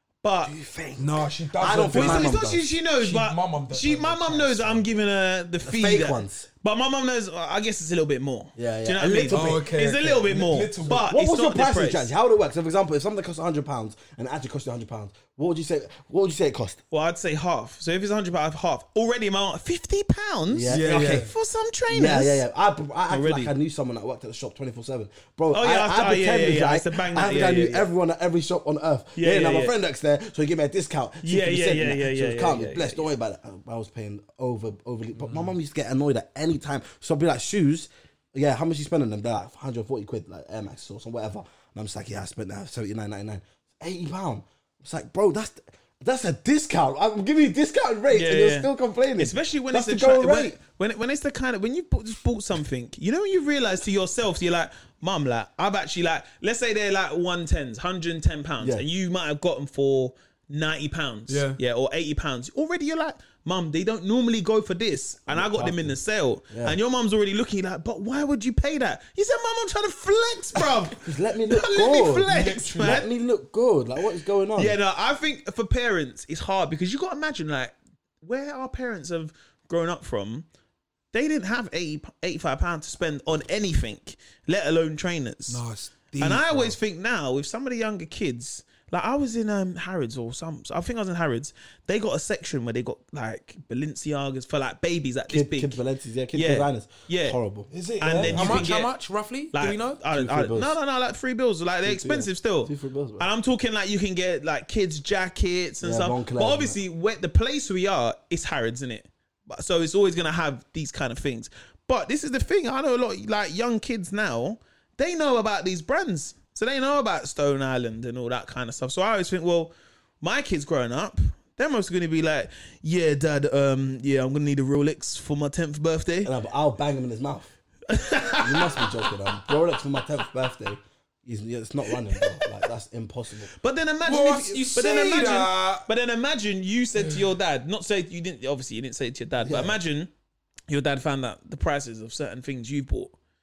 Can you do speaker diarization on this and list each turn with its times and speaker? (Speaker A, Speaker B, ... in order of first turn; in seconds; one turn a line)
Speaker A: 0.2-0.6
Speaker B: 0.5-2.6
Speaker C: 1.0-2.5
Speaker A: 1.8-12.1
Speaker C: 3.0-4.8
Speaker B: 5.6-6.5
Speaker B: 8.6-9.7
Speaker C: 9.3-11.1
Speaker B: 10.9-16.8
Speaker A: 16.9-22.4
Speaker B: 20.5-21.3
Speaker C: 20.7-21.3
Speaker B: 21.9-50.6
Speaker A: 23.1-23.5
Speaker A: 25.5-27.9
Speaker A: 29.2-29.7
Speaker A: 31.2-33.1
Speaker C: 35.2-35.5
Speaker A: 48.1-73.1
Speaker C: 61.3-61.6
Speaker B: 65.3-66.0
Speaker B: 66.5-66.8
Speaker B: 71.0-74.8
Speaker C: 72.3-73.0
Speaker A: 74.5-80.5
Speaker A: 81.1-85.6
Speaker C: 85.5-86.8
Speaker A: 86.2-95.8
Speaker B: 95.3-98.7
Speaker A: 96.3-97.4
Speaker C: 97.7-100.0
Speaker A: 98.0-98.9
Speaker A: 99.5-126.3
Speaker B: 100.1-100.8
Speaker B: 101.8-103.3
Speaker B: 105.8-106.8
Speaker B: 126.2-127.5
Speaker A: 127.9-129.4
Speaker B: 128.4-133.5
Speaker A: 132.1-132.5
Speaker A: 133.6-140.1
Speaker C: 134.1-135.9
Speaker B: 139.4-139.8
Speaker A: 140.7-143.2